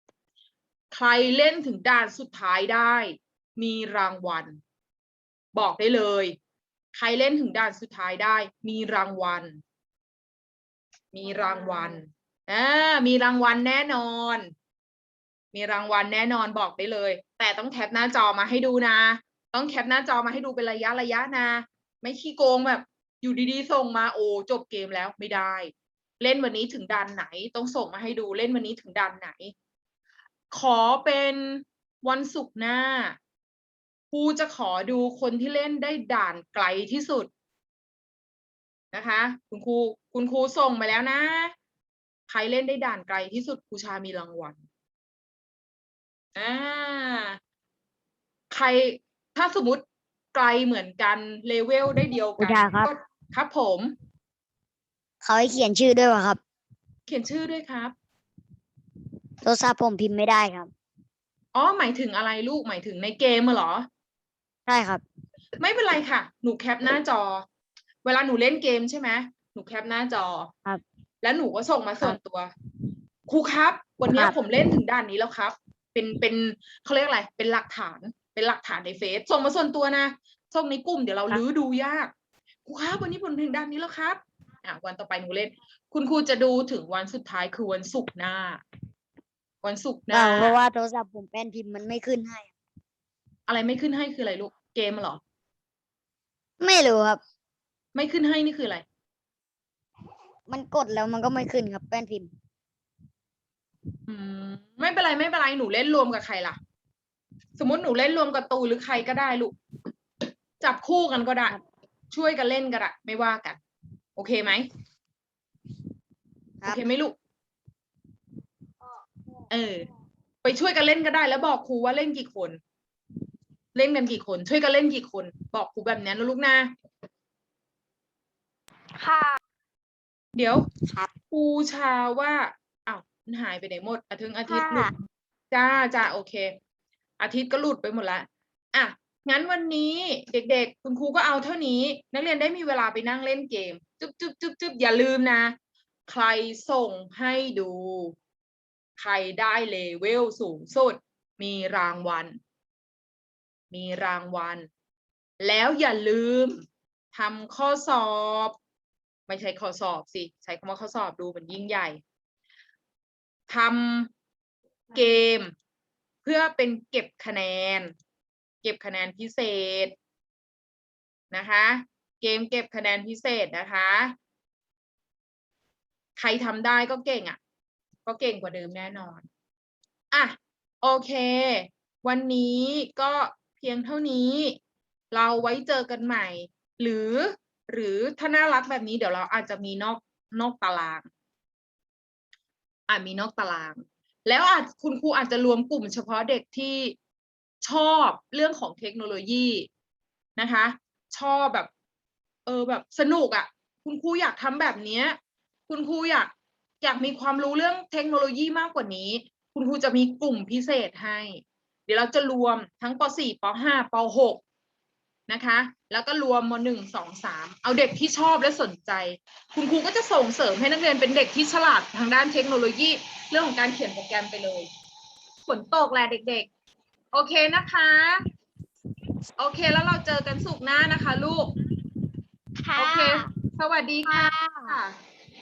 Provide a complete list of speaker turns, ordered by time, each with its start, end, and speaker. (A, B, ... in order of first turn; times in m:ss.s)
0:00.9-0:04.6 A
0:05.5-0:06.3 A
0:06.9-0:09.6 A
0:11.1-0:14.5 A
0:15.5-0:29.5 A
0:30.5-0:33.2 A
0:34.1-0:37.3 A
0:38.9-0:41.5 A
0:42.3-0:44.6 A
0:46.4-0:47.4 A
0:48.5-0:53.9 A
0:52.4-0:52.9 B
0:55.2-0:56.4 B
0:57.1-0:57.9 A
0:59.4-1:00.7 B
1:01.5-1:03.9 A
1:04.7-1:05.0 B
1:05.6-1:07.4 A
1:08.0-1:10.5 A
1:11.2-1:12.5 A
1:13.3-1:22.1 A
1:22.6-1:28.6 A
1:29.6-1:30.5 A
1:30.1-1:32.5 B
1:33.5-1:35.2 A
1:36.6-1:37.2 B
1:37.9-1:38.8 A
1:40.5-1:42.3 B
1:44.1-1:46.6 A
1:47.6-1:49.6 A
1:50.6-1:51.6 A
1:52.1-1:53.6 A
1:54.2-1:54.6 A
1:56.6-1:57.2 A
1:59.5-1:59.9 A
2:00.4-2:02.6 A
2:03.7-2:06.7 A
2:09.0-2:09.4 C
2:10.4-2:10.7 A
2:11.3-2:14.9 A
2:14.5-2:14.9 C
2:15.5-2:16.5 A
2:17.2-2:25.5 A
2:26.1-2:28.1 A
2:29.0-2:32.4 A
2:33.7-2:34.6 A
2:35.4-2:38.6 A
2:39.3-2:42.0 A
2:43.5-2:44.1 A
2:44.9-2:45.5 A
2:46.2-2:47.9 A
2:48.6-2:49.9 A
2:51.3-2:54.1 A
2:56.2-2:57.4 A
2:58.0-2:59.2 A
3:00.1-3:04.6 A
3:05.1-3:11.0 A
3:12.9-3:16.9 A
3:17.6-3:19.7 A
3:20.4-3:21.7 A
3:22.4-3:25.2 A
3:25.7-3:34.4 A
3:35.3-3:44.7 A
3:45.4-3:46.5 A
3:47.1-3:48.2 A
3:49.4-3:51.5 A
3:52.6-3:53.3 C
3:52.8-3:55.0 A
3:54.0-3:54.7 C